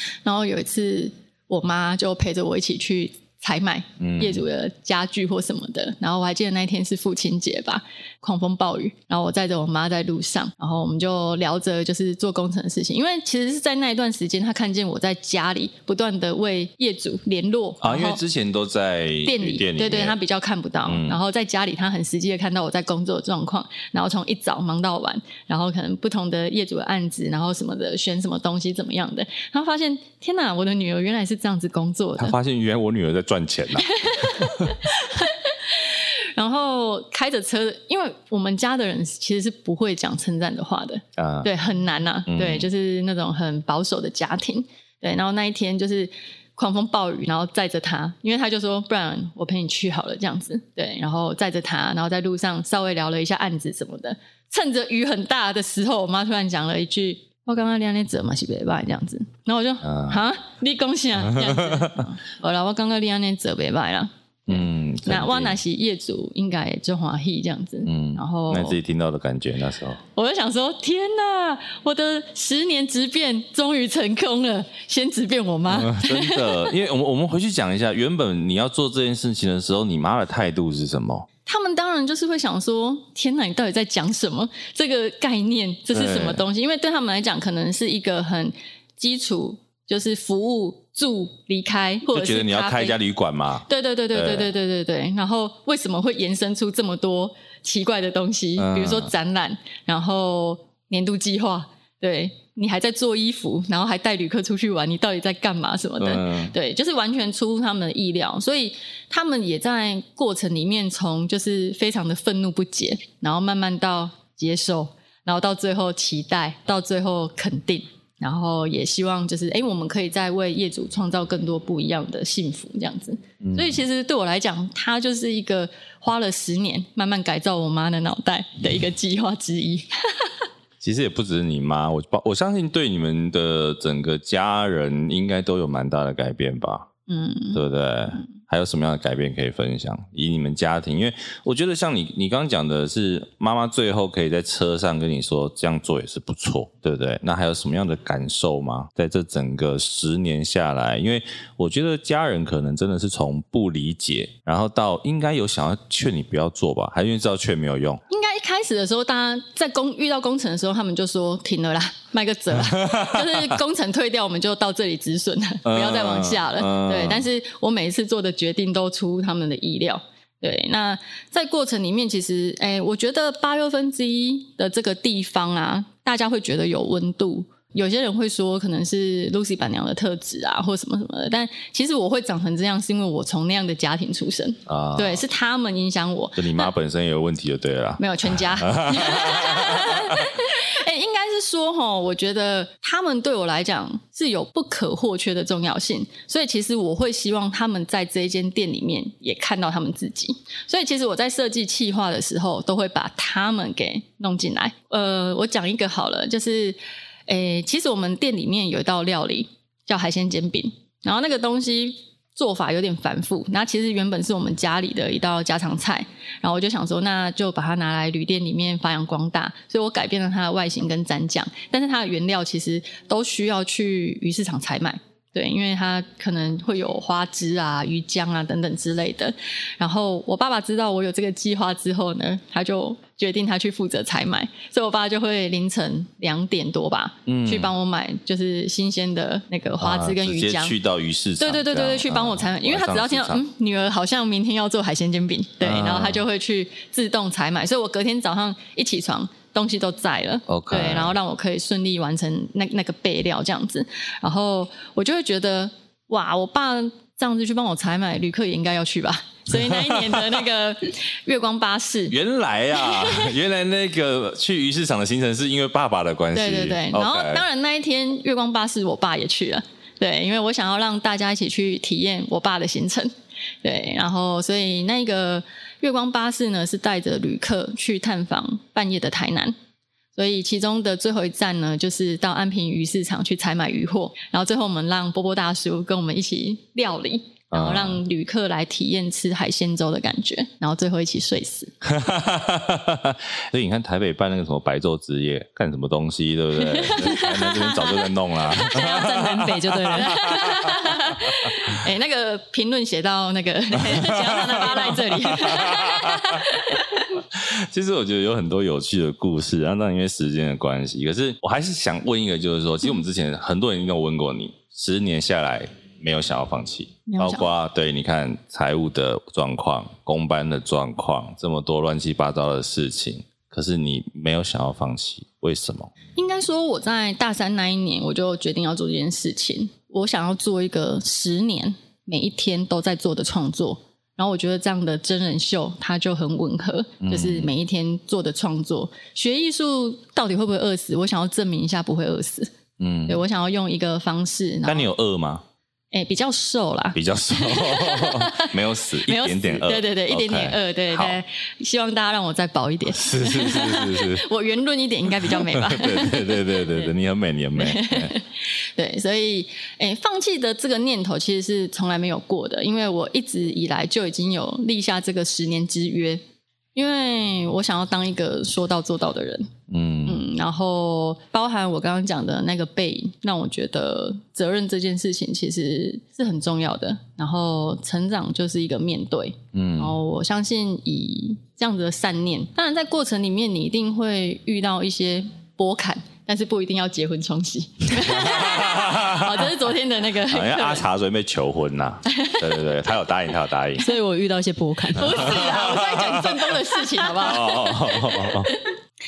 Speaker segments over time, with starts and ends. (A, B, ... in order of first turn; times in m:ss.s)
0:00.2-0:18.2 A
0:04.0-0:04.4 B
0:17.8-0:20.2 B
0:19.2-0:32.3 A
0:20.8-0:21.2 B
0:32.2-0:34.7 B
0:33.9-1:08.8 A
0:41.2-0:41.5 B
0:42.3-0:42.7 B
0:59.8-1:00.2 B
1:01.4-1:01.9 B
1:04.5-1:05.6 B
1:07.8-1:10.0 B
1:10.1-1:16.7 A
1:15.7-1:21.3 B
1:21.4-1:33.0 A
1:25.9-1:26.4 B
1:32.1-1:34.5 B
1:33.7-2:10.3 A
1:38.6-1:39.1 B
1:46.0-1:46.5 B
2:03.4-2:03.8 B
2:10.8-2:16.9 B
2:17.1-2:17.6 A
2:17.5-2:38.0 B
2:38.1-3:06.7 A
2:42.5-2:43.5 B
2:45.6-2:47.2 B
3:04.7-3:05.2 B
3:06.4-3:10.3 B
3:08.0-4:00.8 A
3:57.2-3:57.7 B
3:59.8-4:03.4 B
4:01.4-4:22.1 A
4:05.6-4:06.2 B
4:10.5-4:11.1 B
4:19.5-4:20.4 B
4:22.1-4:27.4 B
4:22.8-4:23.3 A
4:26.3-4:33.1 A
4:33.6-4:39.5 A
4:40.1-4:51.7 A
4:47.5-4:48.0 B
4:51.8-5:01.1 B
4:56.6-4:59.1 A
4:58.7-5:00.5 C
4:59.9-5:07.0 A
5:03.8-5:06.6 B
5:04.2-5:05.6 C
5:07.1-5:25.9 B
5:17.1-5:17.5 A
5:26.2-5:42.5 A
5:37.0-5:37.5 B
5:42.8-5:43.2 B
5:43.1-5:44.9 A
5:44.6-5:45.4 B
5:45.9-5:56.9 A
5:46.9-5:51.2 B
5:52.9-5:54.2 B
5:55.2-5:58.1 B
5:57.6-6:06.2 A
6:06.7-6:09.5 A
6:09.7-6:10.2 B
6:10.0-6:30.8 A
6:19.5-6:19.9 B
6:27.9-6:29.5 B
6:30.3-6:33.8 B
6:32.2-6:32.4 A
6:33.8-6:35.3 C
6:35.0-6:36.5 B
6:35.0-6:38.7 A
6:37.1-6:38.5 B